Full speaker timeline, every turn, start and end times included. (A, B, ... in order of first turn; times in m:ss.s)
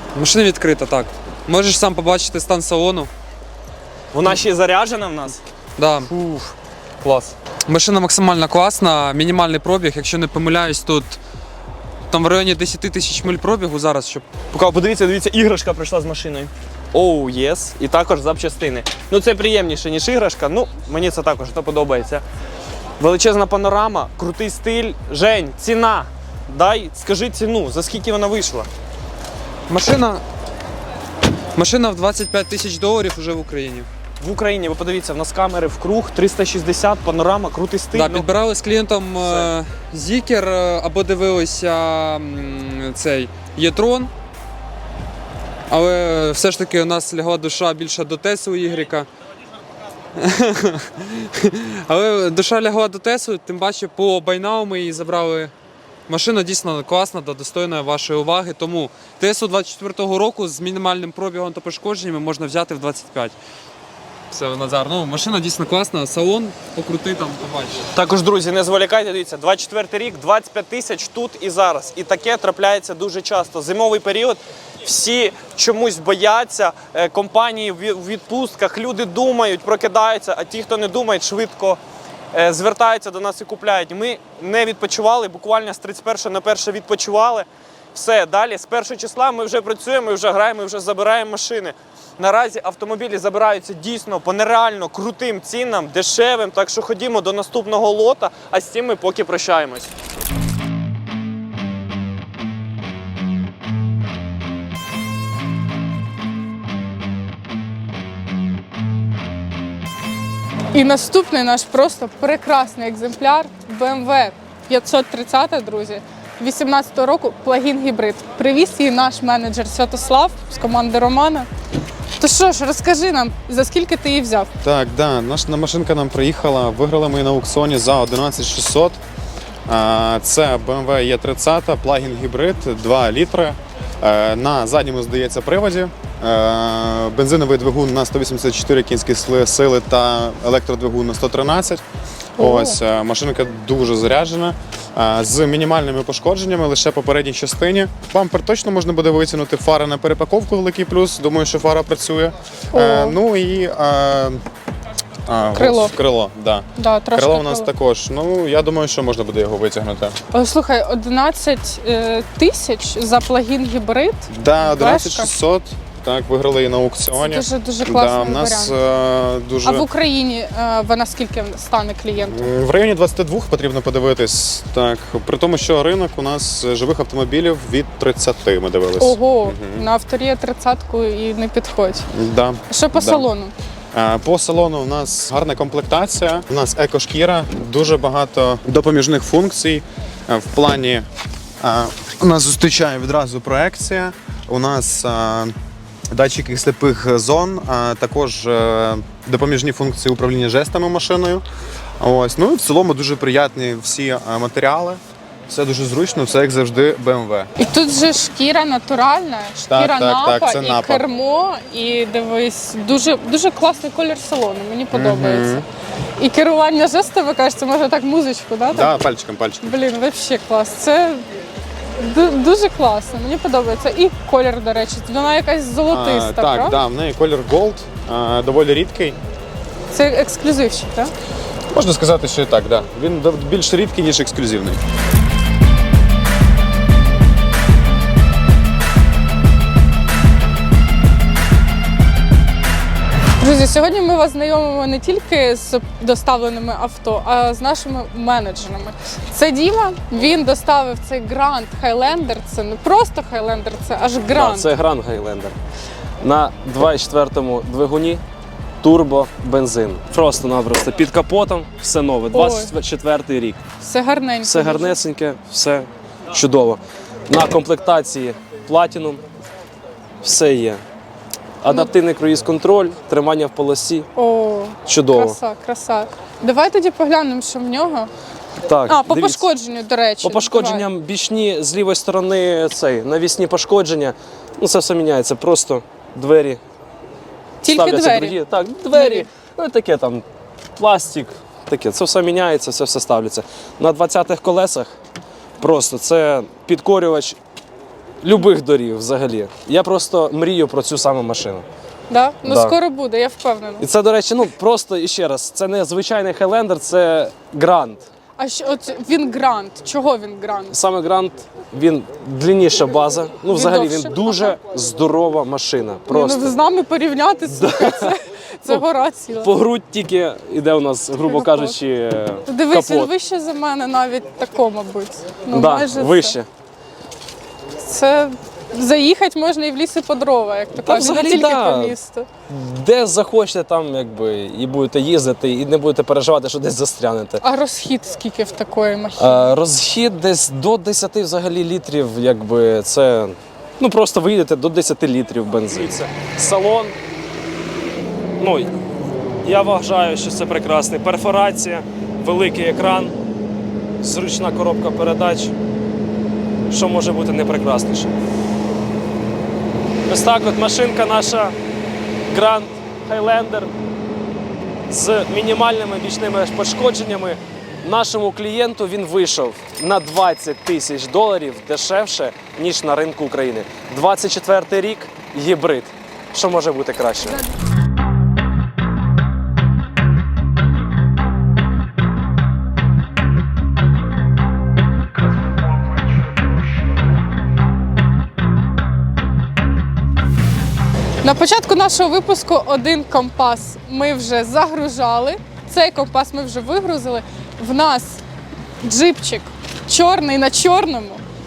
0:00.1-0:03.1 A
0:04.1-0:05.4 B
0:05.8-0:06.1 A
0:06.0-0:07.3 B
0:07.7-0:11.2 A
0:12.1-0:14.3 A
0:14.5-0:22.2 B
0:23.0-0:28.7 B
0:29.7-0:30.2 A
0:31.5-0:33.9 A
0:34.2-0:38.3 B
0:37.9-0:44.1 A
0:39.2-0:39.5 B
0:45.7-0:49.1 A
0:50.2-0:55.5 A
0:56.1-1:03.3 A
1:04.3-1:07.8 A
1:07.9-1:21.8 B
1:22.3-1:39.9 B
1:50.7-2:01.5 C
2:02.2-2:04.5 C
2:04.6-2:09.0 D
2:09.7-2:21.8 D
2:22.4-2:34.4 D
2:22.4-2:22.8 C
2:32.7-2:33.2 C
2:35.2-2:40.2 D
2:35.5-2:35.9 C
2:36.8-2:37.7 C
2:40.3-2:45.3 C
2:44.3-2:49.8 D
2:47.2-2:48.7 C
2:49.6-2:52.5 C
2:52.3-2:59.9 D
2:59.0-3:02.1 C
3:02.1-3:03.3 D
3:02.7-3:03.5 C
3:03.9-3:11.1 D
3:11.6-3:15.5 D
3:16.1-3:21.4 D
3:22.0-3:27.5 D
3:27.6-3:35.6 C
3:29.6-3:31.0 D
3:34.9-3:35.6 D
3:36.2-3:38.9 C
3:38.7-3:39.7 D
3:39.6-3:41.2 C
3:42.0-3:46.8 C
3:45.9-3:49.2 D
3:49.9-3:51.1 C
3:51.7-3:54.8 D
4:03.4-4:14.7 C
4:14.3-4:15.5 E
4:16.2-4:18.2 E
4:18.8-4:23.6 E
4:22.3-4:22.7 C
4:23.8-4:25.0 C
4:24.4-4:29.2 E
4:30.2-4:30.8 E
4:31.6-4:34.1 E
4:31.7-4:31.9 C
4:34.1-4:38.1 C
4:34.8-4:35.4 E
4:38.6-4:39.4 E
4:38.9-4:40.9 C
4:40.2-4:46.6 E
4:47.6-4:48.4 C
4:47.6-4:50.2 E
4:48.9-4:49.3 C
4:50.8-4:54.9 E
4:55.6-4:57.4 E
4:58.2-5:01.6 E
5:02.1-5:03.8 C
5:02.4-5:02.8 E
5:03.8-5:08.1 E
5:08.4-5:10.7 C
5:10.7-5:16.5 E
5:13.4-5:14.6 C
5:16.1-5:19.5 C
5:17.5-5:18.1 E
5:19.4-5:23.1 E
5:21.2-5:21.8 C
5:22.4-5:26.4 C
5:25.5-5:26.5 E
5:27.8-5:32.3 C
5:30.8-5:31.9 E
5:32.5-5:37.4 E
5:37.4-5:39.5 C
5:39.2-5:46.9 E
5:48.4-5:48.7 E
5:49.4-5:53.1 E
5:54.0-5:55.5 E
5:56.7-5:58.1 E
6:00.1-6:01.5 E
6:02.3-6:03.7 E
6:04.9-6:17.4 E
6:31.2-6:38.2 C
6:38.8-6:41.2 C